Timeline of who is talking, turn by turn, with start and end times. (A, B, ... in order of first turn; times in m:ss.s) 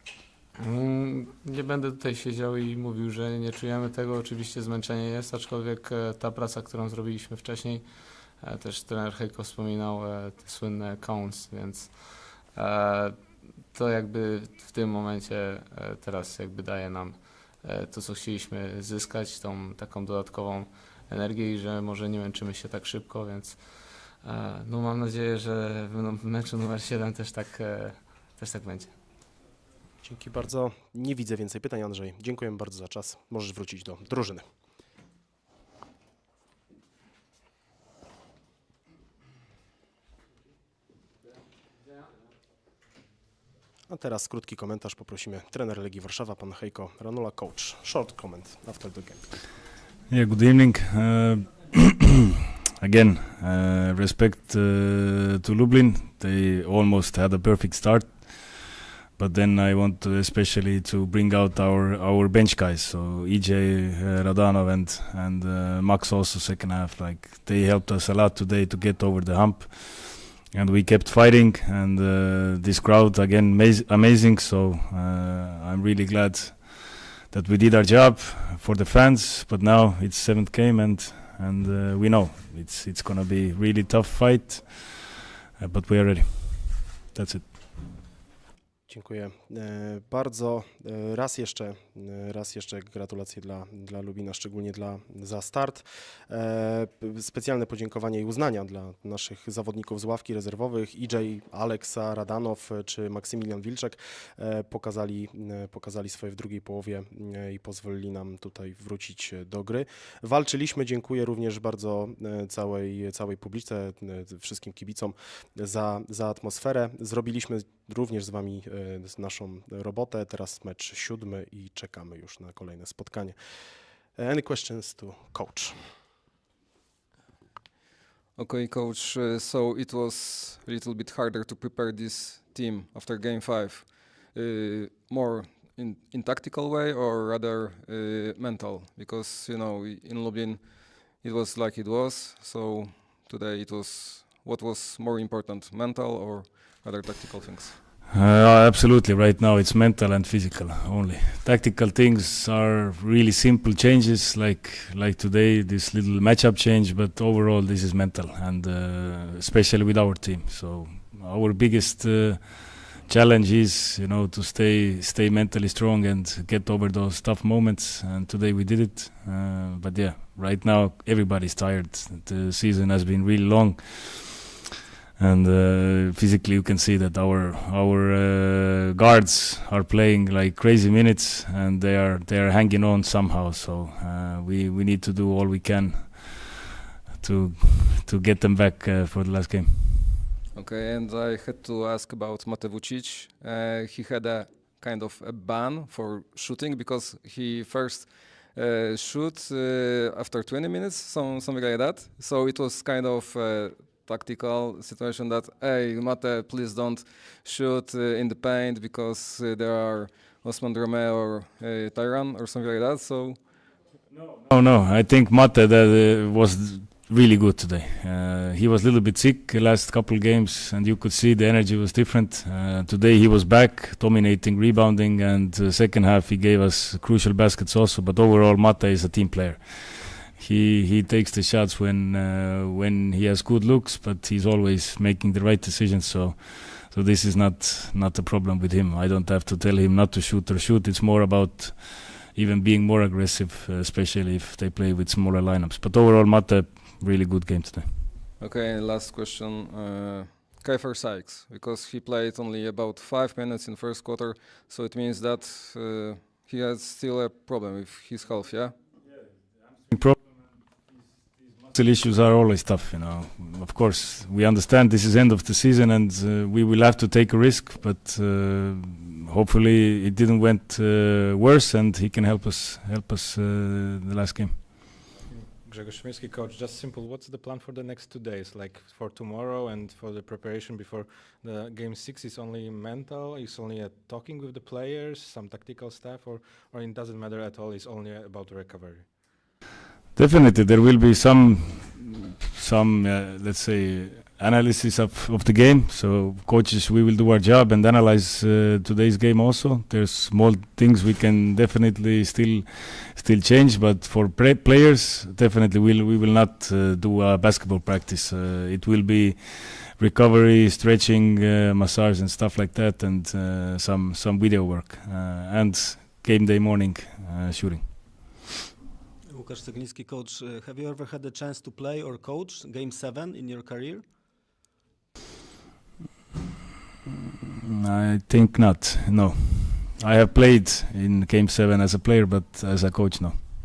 0:00.6-0:29.0 A
0:30.0-0:34.4 B
0:43.9-0:49.2 B
0:50.1-0:52.2 C
0:52.8-1:27.8 C
1:28.9-2:03.4 B
2:04.1-2:05.8 B
2:08.4-2:27.8 D
2:28.1-2:54.5 C
2:55.2-3:06.6 C
3:07.2-3:10.2 C
3:10.5-3:33.4 D
3:34.4-4:07.9 C
4:08.4-4:18.8 D
4:19.9-4:20.2 C
4:21.7-4:34.9 C
4:35.3-4:49.1 E
4:50.2-5:18.4 C
5:19.3-5:24.0 F
5:27.5-5:33.4 C